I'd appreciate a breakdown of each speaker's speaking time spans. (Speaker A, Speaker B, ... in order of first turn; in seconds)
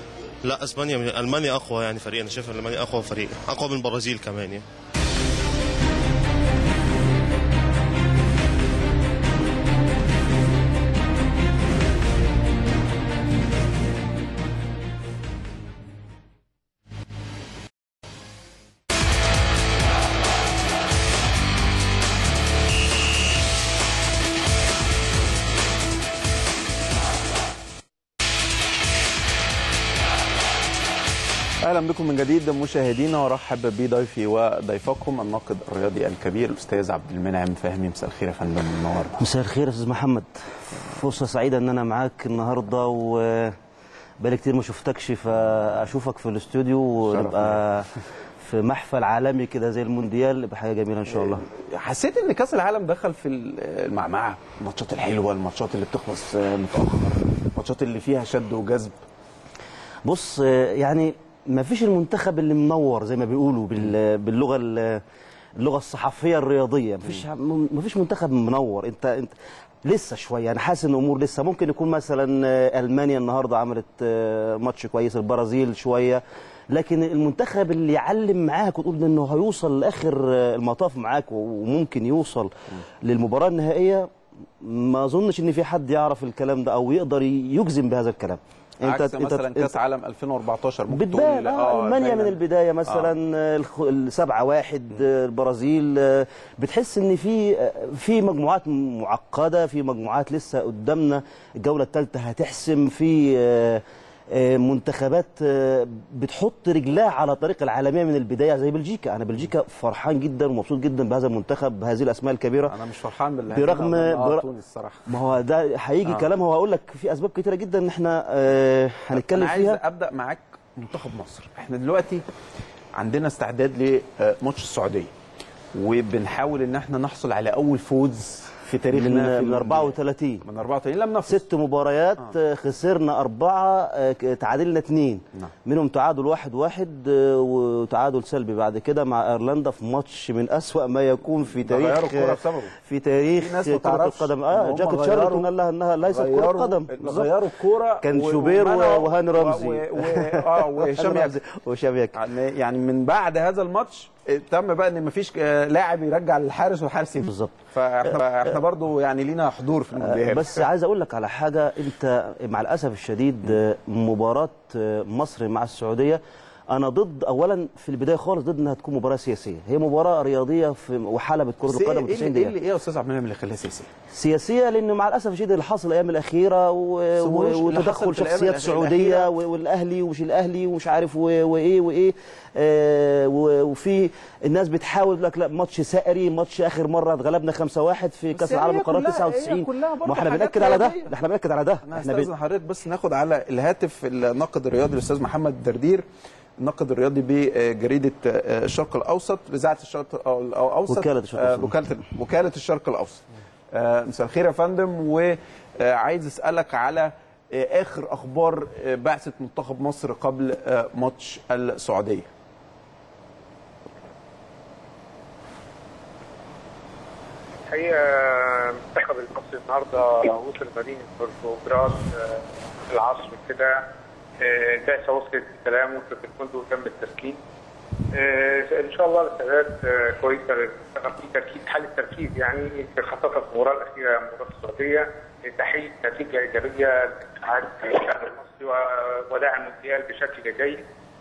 Speaker A: 0.5-4.6
Speaker B: 31.6-39.2, 47.0-47.6, 51.1-59.0, 88.8-93.1, 112.7-115.1, 119.1-122.2, 123.0-125.1, 125.7-131.4, 141.6-142.7, 143.4-145.5, 146.0-151.4, 152.1-160.6, 171.6-173.9, 177.2-179.3, 188.3-191.1, 191.8-196.0, 196.6-212.3
Speaker C: 39.2-43.5, 44.2-51.4, 60.0-65.0, 65.6-82.5, 83.0-84.1, 84.6-89.8, 90.9-112.8, 113.5-114.4, 115.1-119.8, 128.9-130.4, 131.2-147.4, 148.0-152.2, 157.3-158.2, 160.0-166.2, 166.7-172.5, 174.1-192.3, 200.9-201.8
Speaker D: 217.7-223.8, 224.4-227.4, 228.1-240.8